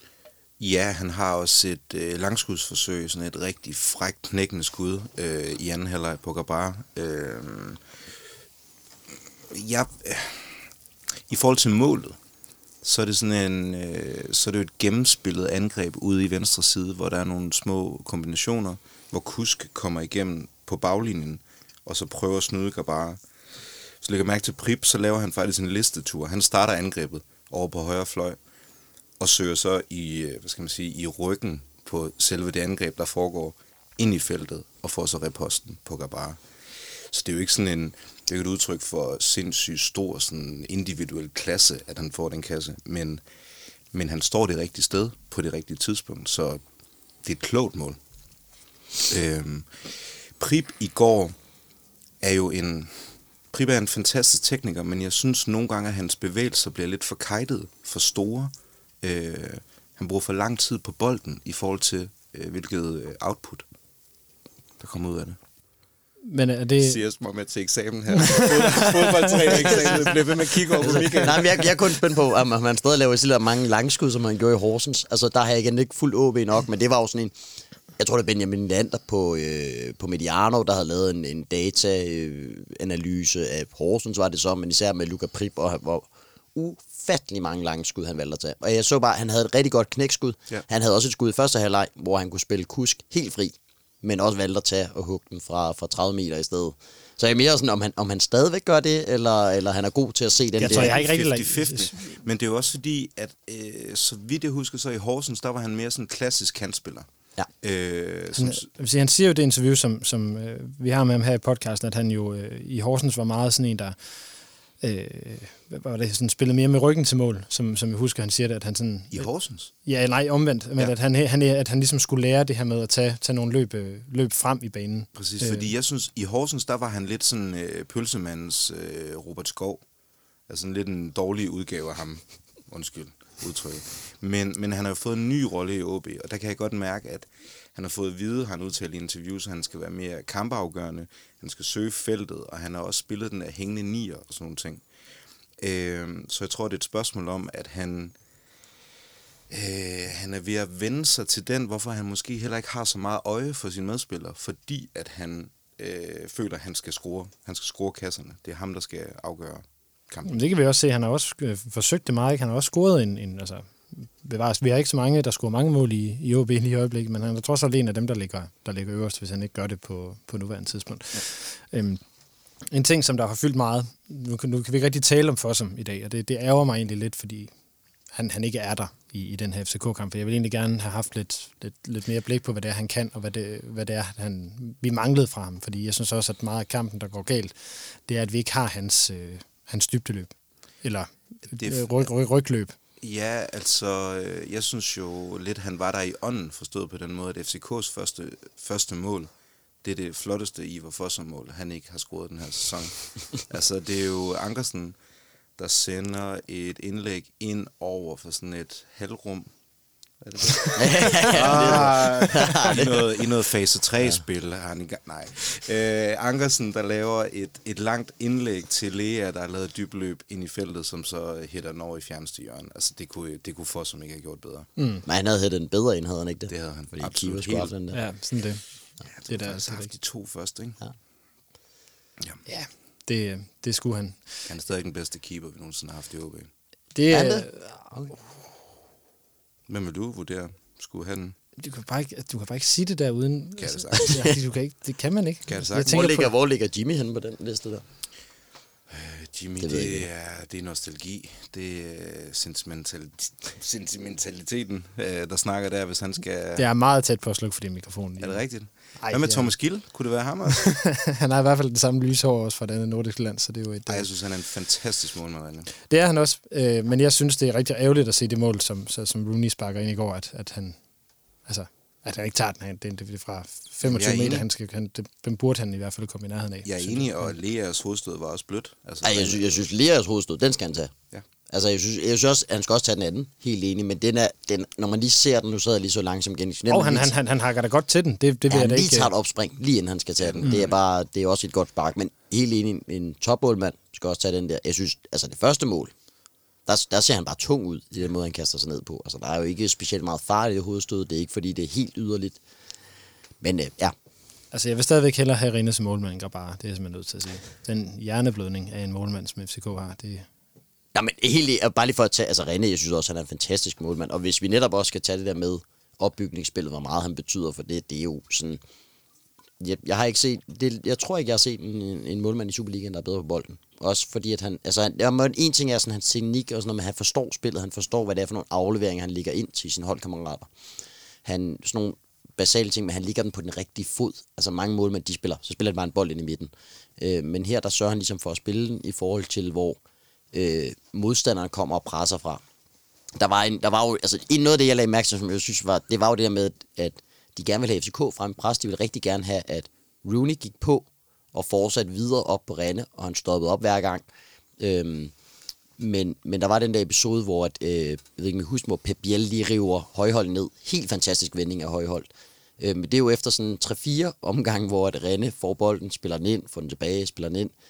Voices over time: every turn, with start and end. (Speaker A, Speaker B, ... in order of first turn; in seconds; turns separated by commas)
Speaker A: 0.6-7.8, Speaker A: 9.5-10.7, Speaker A: 11.3-12.2, Speaker A: 12.8-23.2, Speaker A: 24.0-28.4, Speaker A: 29.2-36.4, Speaker A: 37.1-43.2, Speaker A: 43.9-46.6, Speaker A: 47.2-48.0, Speaker A: 49.1-51.4, Speaker A: 52.2-63.6, Speaker A: 64.8-65.4, Speaker B: 66.3-67.0, Speaker A: 66.8-71.9, Speaker B: 68.1-70.0, Speaker C: 70.8-77.3, Speaker C: 78.0-101.0, Speaker B: 100.6-101.9, Speaker A: 100.6-107.1, Speaker A: 107.6-108.7, Speaker B: 108.3-114.2, Speaker B: 114.8-119.3, Speaker A: 119.1-119.7, Speaker B: 119.8-125.7, Speaker A: 125.2-129.8, Speaker A: 130.5-144.8, Speaker A: 145.6-148.1, Speaker A: 149.5-160.4, Speaker B: 160.2-172.0, Speaker B: 172.7-177.5, Speaker B: 178.1-192.7, Speaker A: 191.5-192.1, Speaker A: 193.0-199.3, Speaker A: 199.8-205.0, Speaker A: 205.6-209.5, Speaker A: 210.2-224.7, Speaker C: 210.8-213.2, Speaker B: 211.0-211.7, Speaker B: 224.8-225.0, Speaker C: 225.1-228.0, Speaker A: 226.5-227.7, Speaker B: 227.9-228.6, Speaker A: 229.1-230.8, Speaker B: 229.3-229.9, Speaker B: 232.5-234.4, Speaker A: 234.5-236.5, Speaker B: 236.9-237.9, Speaker C: 237.1-238.1, Speaker A: 239.7-241.4, Speaker B: 241.6-246.3, Speaker A: 243.6-244.2, Speaker C: 244.0-244.4, Speaker A: 245.5-245.9, Speaker C: 245.8-247.8, Speaker A: 248.9-256.7, Speaker C: 249.6-250.1, Speaker B: 256.6-258.4, Speaker A: 258.2-260.8, Speaker B: 259.0-259.6, Speaker B: 260.5-264.1, Speaker A: 263.9-265.7, Speaker B: 265.9-270.8, Speaker B: 271.5-277.3, Speaker A: 273.8-274.5, Speaker A: 276.6-279.6, Speaker C: 279.0-280.9, Speaker C: 281.5-287.1, Speaker B: 286.7-289.1, Speaker C: 288.5-295.9, Speaker A: 290.2-290.7, Speaker C: 296.7-302.4, Speaker C: 303.4-303.9, Speaker B: 304.5-310.3, Speaker C: 310.9-318.6, Speaker C: 319.6-330.5, Speaker C: 331.2-339.8, Speaker C: 340.3-342.4, Speaker C: 343.2-354.1, Speaker C: 354.6-355.1, Speaker C: 355.8-367.5